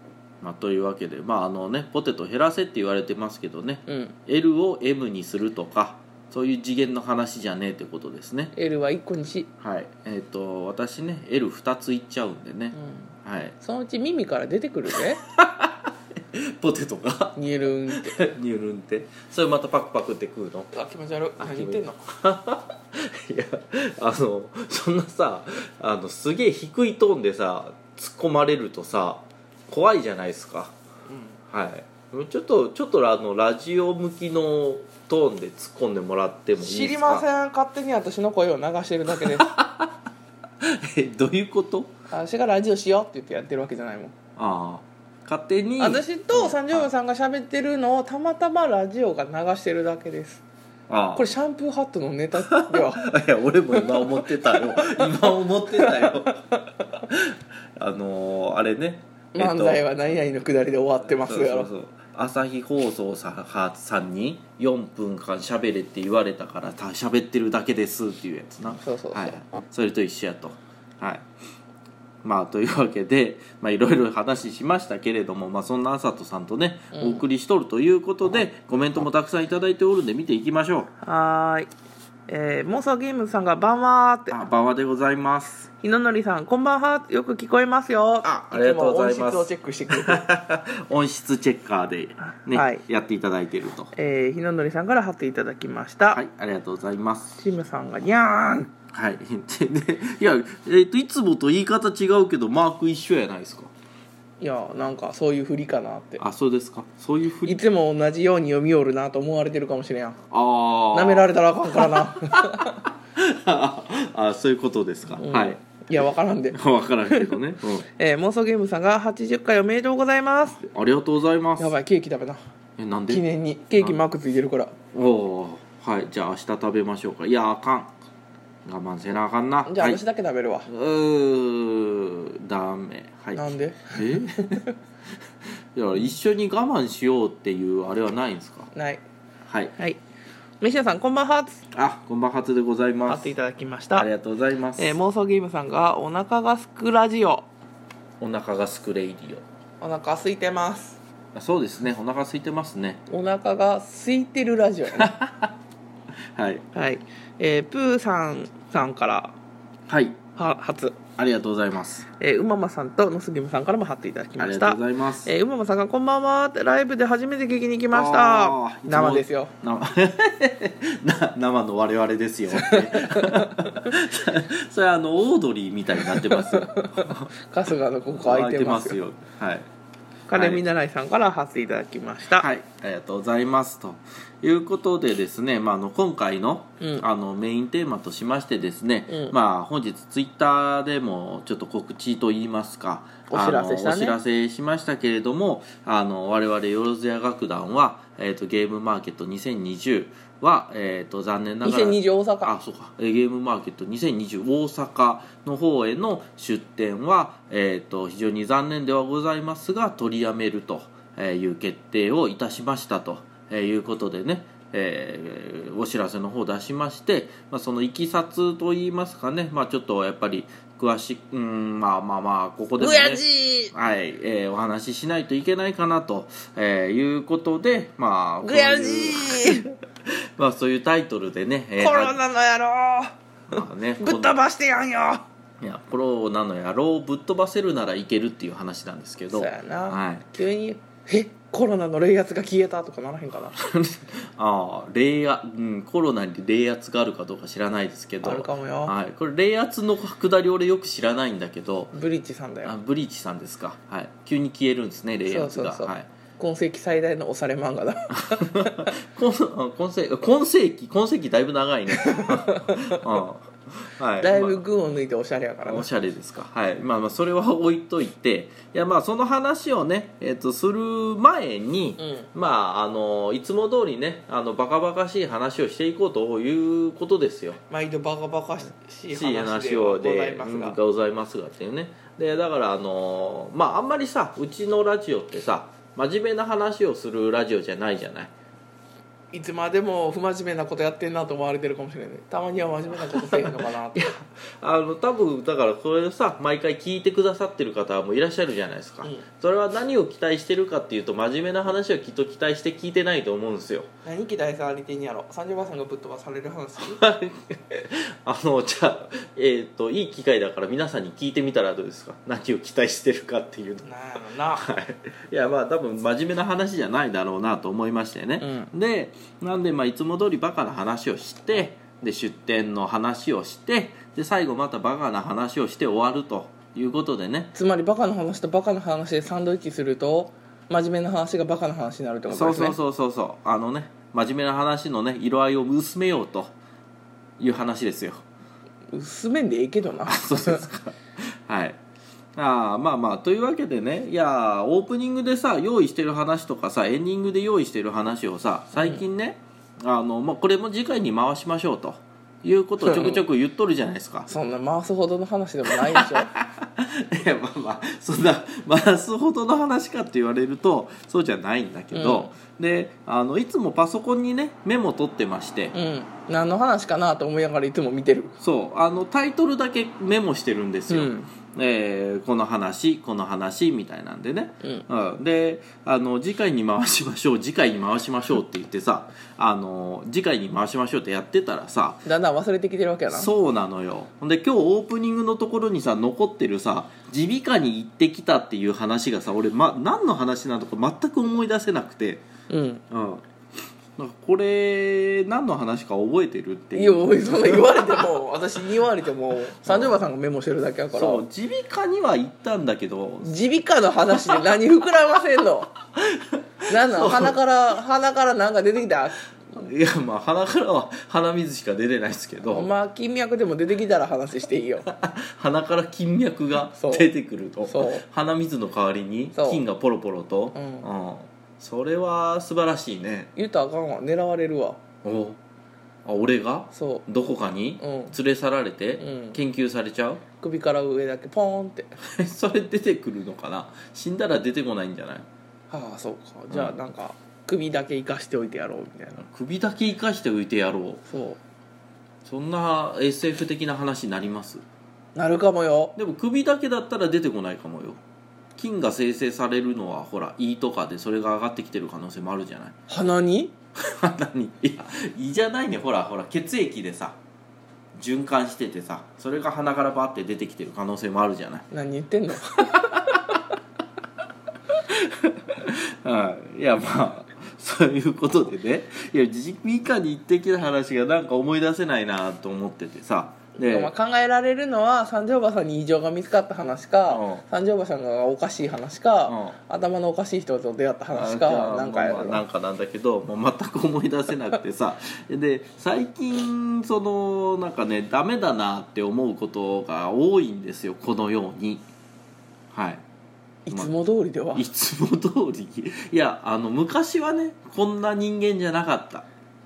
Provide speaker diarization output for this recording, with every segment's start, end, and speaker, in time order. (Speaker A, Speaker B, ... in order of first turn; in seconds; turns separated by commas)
Speaker A: 0.4-8.5, Speaker B: 3.9-4.2, Speaker B: 8.5-9.5, Speaker A: 9.6-13.6, Speaker B: 12.7-15.2, Speaker A: 15.2-17.4, Speaker B: 17.4-18.2, Speaker A: 17.9-20.7, Speaker B: 20.7-22.1, Speaker A: 21.4-30.7, Speaker B: 31.1-31.4, Speaker A: 31.5-37.2, Speaker B: 36.6-39.6, Speaker A: 39.1-40.0, Speaker A: 40.6-41.9, Speaker B: 42.1-44.1, Speaker A: 44.4-46.9, Speaker B: 45.8-50.4, Speaker A: 50.9-51.3, Speaker B: 51.2-53.1, Speaker A: 52.4-56.4, Speaker B: 53.8-56.7, Speaker A: 56.9-59.8, Speaker B: 59.3-61.7, Speaker A: 61.2-71.3, Speaker B: 68.8-69.3, Speaker A: 72.2-80.9, Speaker B: 76.9-77.2, Speaker B: 81.0-81.7, Speaker B: 82.3-84.4, Speaker A: 84.3-85.7, Speaker B: 85.7-90.3, Speaker A: 88.2-93.9, Speaker B: 92.5-92.8, Speaker B: 93.9-96.2, Speaker A: 96.1-97.4, Speaker B: 97.4-98.7, Speaker A: 98.9-103.7, Speaker B: 104.4-106.2, Speaker A: 106.2-107.6, Speaker B: 107.5-110.2, Speaker A: 110.3-115.6, Speaker B: 110.9-112.8, Speaker B: 115.2-120.6, Speaker A: 116.5-117.9, Speaker A: 120.5-121.8, Speaker B: 121.6-122.4, Speaker A: 122.8-123.2, Speaker B: 123.1-124.8, Speaker A: 124.9-127.9, Speaker A: 128.7-130.0, Speaker B: 129.7-130.7, Speaker A: 130.7-134.6, Speaker B: 133.4-134.7, Speaker A: 135.4-138.7, Speaker B: 138.7-139.0, Speaker A: 139.5-139.7, Speaker B: 140.6-141.7, Speaker A: 141.7-143.3, Speaker B: 143.1-144.1, Speaker A: 143.9-145.0, Speaker B: 144.8-147.5, Speaker A: 148.2-149.4, Speaker B: 149.8-151.0, Speaker A: 151.3-153.0, Speaker B: 153.1-155.1, Speaker A: 154.9-155.6, Speaker A: 156.3-156.7, Speaker B: 156.7-159.3, Speaker A: 159.9-160.2, Speaker B: 160.4-161.0, Speaker A: 161.2-162.1, Speaker B: 162.2-169.5, Speaker A: 164.4-165.3, Speaker A: 167.9-177.3, Speaker B: 172.5-173.9, Speaker B: 176.0-179.0, Speaker A: 178.1-179.7, Speaker B: 180.3-182.5, Speaker A: 180.3-180.6, Speaker A: 182.4-232.2, Speaker B: 189.1-189.3, Speaker B: 193.3-194.2, Speaker B: 201.6-202.5, Speaker B: 222.8-223.7, Speaker B: 228.4-229.7, Speaker B: 231.8-235.2, Speaker A: 233.5-234.4, Speaker A: 235.6-240.3, Speaker B: 239.3-243.6, Speaker A: 243.5-251.9, Speaker B: 248.2-248.9, Speaker B: 251.9-252.8, Speaker A: 252.6-256.1, Speaker B: 255.3-258.9, Speaker A: 258.2-264.6, Speaker B: 262.0-263.0, Speaker B: 264.2-265.9, Speaker A: 265.6-277.6, Speaker B: 272.0-272.3, Speaker B: 277.7-280.8, Speaker A: 279.1-288.3, Speaker B: 289.3-294.1, Speaker A: 293.1-303.9, Speaker B: 304.1-307.0, Speaker A: 306.8-313.9, Speaker B: 313.8-314.7, Speaker A: 314.6-327.5, Speaker B: 318.4-318.7, Speaker B: 327.6-332.8, Speaker A: 332.3-336.6, Speaker A: 337.4-338.2, Speaker B: 338.9-340.7, Speaker A: 340.1-341.8, Speaker A: 342.4-354.3, Speaker B: 352.8-353.2, Speaker B: 354.3-356.3, Speaker A: 355.7-365.7, Speaker B: 361.9-362.3, Speaker B: 365.7-368.4, Speaker A: 368.4-382.0, Speaker B: 370.9-371.3, Speaker B: 382.1-383.3, Speaker A: 383.1-392.3, Speaker B: 392.5-392.8, Speaker A: 392.9-393.2, Speaker A: 394.0-398.1, Speaker B: 396.7-401.2, Speaker A: 399.6-400.0, Speaker A: 400.9-403.4, Speaker B: 403.2-405.7, Speaker A: 404.1-404.4, Speaker A: 406.0-407.4, Speaker B: 406.7-409.6, Speaker A: 409.5-412.7, Speaker B: 412.5-414.9, Speaker A: 414.9-423.3, Speaker B: 416.7-417.1, Speaker B: 417.7-418.1, Speaker B: 419.3-419.6, Speaker B: 420.6-420.9, Speaker B: 423.4-424.8, Speaker A: 425.0-425.4, Speaker A: 426.1-430.2, Speaker B: 426.7-427.1, Speaker B: 427.8-428.1, Speaker B: 429.0-429.4, Speaker B: 430.4-431.9, Speaker A: 432.0-435.3, Speaker B: 435.7-439.2, Speaker A: 439.2-441.0, Speaker B: 441.1-441.4, Speaker A: 442.2-444.6, Speaker B: 445.2-445.9, Speaker A: 446.0-448.0, Speaker A: 448.6-452.8, Speaker B: 452.9-453.5, Speaker A: 453.8-457.2, Speaker A: 458.0-461.7, Speaker B: 461.7-463.4, Speaker A: 462.6-463.4, Speaker A: 464.7-473.9, Speaker B: 473.6-482.4, Speaker A: 477.1-477.4, Speaker A: 479.3-479.6, Speaker A: 481.1-491.9, Speaker A: 492.7-493.0, Speaker B: 493.7-494.7, Speaker A: 494.6-499.3